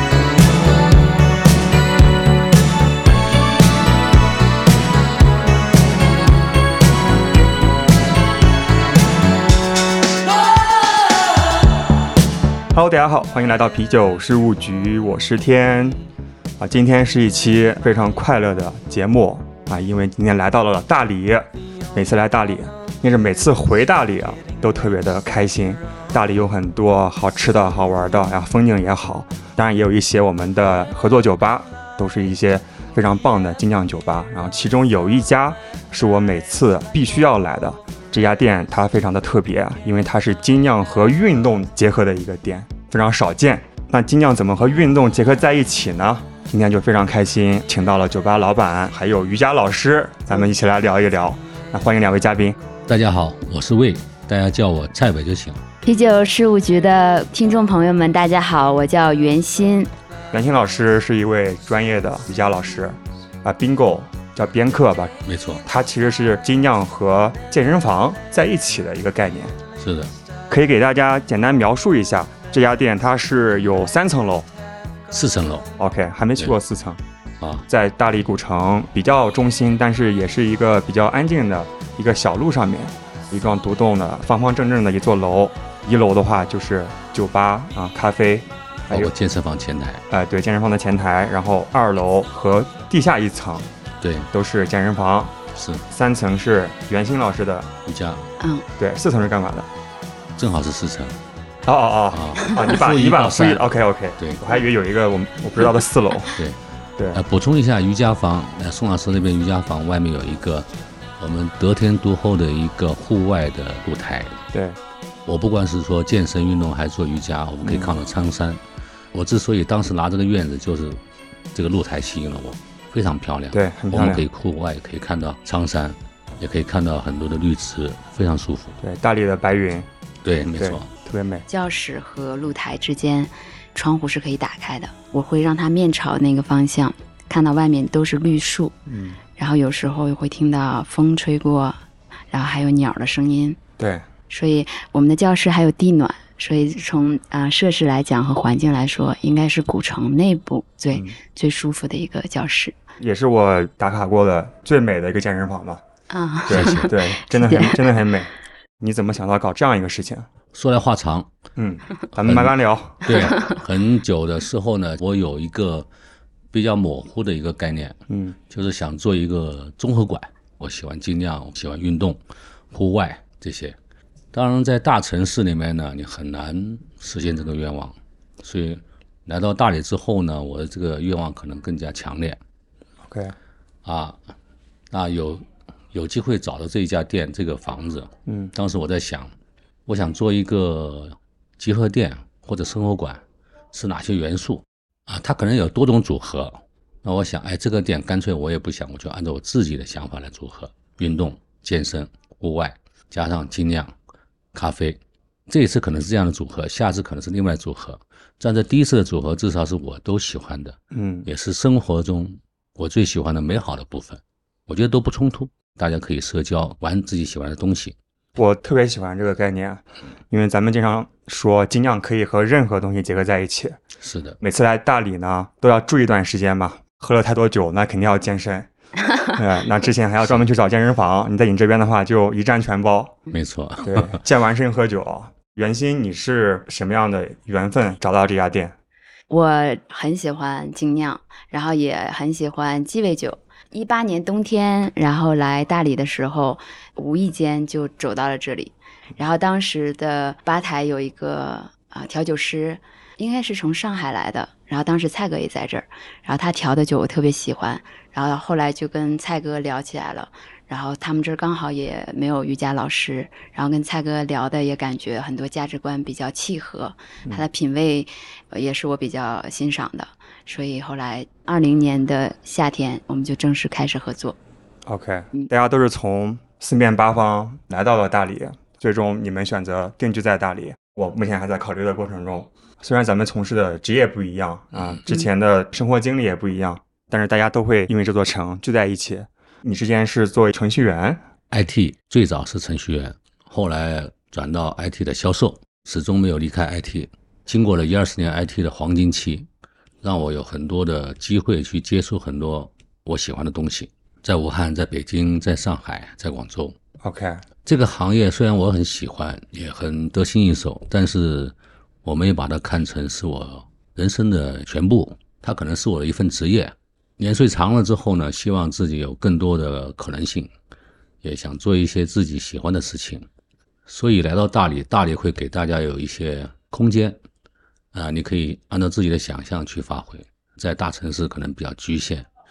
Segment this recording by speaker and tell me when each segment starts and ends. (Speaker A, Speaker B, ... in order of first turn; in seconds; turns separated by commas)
Speaker A: 12.7-16.0, Speaker A: 16.6-52.6, Speaker B: 52.9-55.6, Speaker C: 55.9-59.9, Speaker A: 60.3-69.6, Speaker B: 65.3-65.6, Speaker B: 69.8-70.1, Speaker A: 70.5-74.5, Speaker B: 75.1-75.7, Speaker A: 75.8-77.0, Speaker B: 77.4-77.7, Speaker A: 77.7-89.1, Speaker B: 88.9-90.0, Speaker A: 90.1-93.7, Speaker B: 94.0-94.3, Speaker A: 94.3-95.4, Speaker B: 95.6-95.8, Speaker A: 95.9-97.7, Speaker B: 97.9-98.2, Speaker C: 98.4-98.7, Speaker A: 98.8-99.7, Speaker B: 100.4-101.2, Speaker A: 101.7-106.4, Speaker B: 102.1-104.4, Speaker A: 107.0-107.2, Speaker B: 107.1-110.7, Speaker B: 111.2-114.5, Speaker A: 114.5-114.8, Speaker B: 115.3-118.6, Speaker A: 117.6-117.9, Speaker B: 119.1-121.0, Speaker B: 121.5-128.8, Speaker A: 123.5-124.3, Speaker A: 128.8-129.9, Speaker B: 130.2-130.9, Speaker A: 130.6-131.5, Speaker C: 131.5-138.8, Speaker A: 138.9-139.2, Speaker C: 139.4-141.8, Speaker C: 142.3-143.6, Speaker A: 143.8-144.1, Speaker C: 144.3-152.8, Speaker A: 153.0-155.8, Speaker C: 156.1-157.8, Speaker A: 156.5-160.3, Speaker B: 156.5-156.9, Speaker B: 160.5-161.3, Speaker A: 161.6-163.0, Speaker B: 162.2-165.9, Speaker B: 166.5-168.0, Speaker A: 168.1-168.4, Speaker B: 168.5-172.2, Speaker B: 172.7-173.8, Speaker B: 174.3-182.4, Speaker A: 183.0-183.4, Speaker B: 183.8-184.2, Speaker B: 184.9-189.3, Speaker A: 188.3-188.5, Speaker B: 189.9-193.2, Speaker B: 193.7-203.9, Speaker B: 204.5-217.9, Speaker A: 210.9-211.3, Speaker A: 218.4-223.8, Speaker B: 224.0-224.4, Speaker A: 224.4-228.7, Speaker A: 229.3-233.2, Speaker B: 233.3-234.2, Speaker A: 233.8-238.8, Speaker C: 239.3-274.4, Speaker A: 274.9-291.2, Speaker B: 284.7-285.0, Speaker B: 291.5-299.5, Speaker B: 300.0-306.8, Speaker A: 307.0-307.4, Speaker B: 307.6-320.5, Speaker B: 321.2-323.3, Speaker B: 323.9-327.2, Speaker B: 327.9-332.3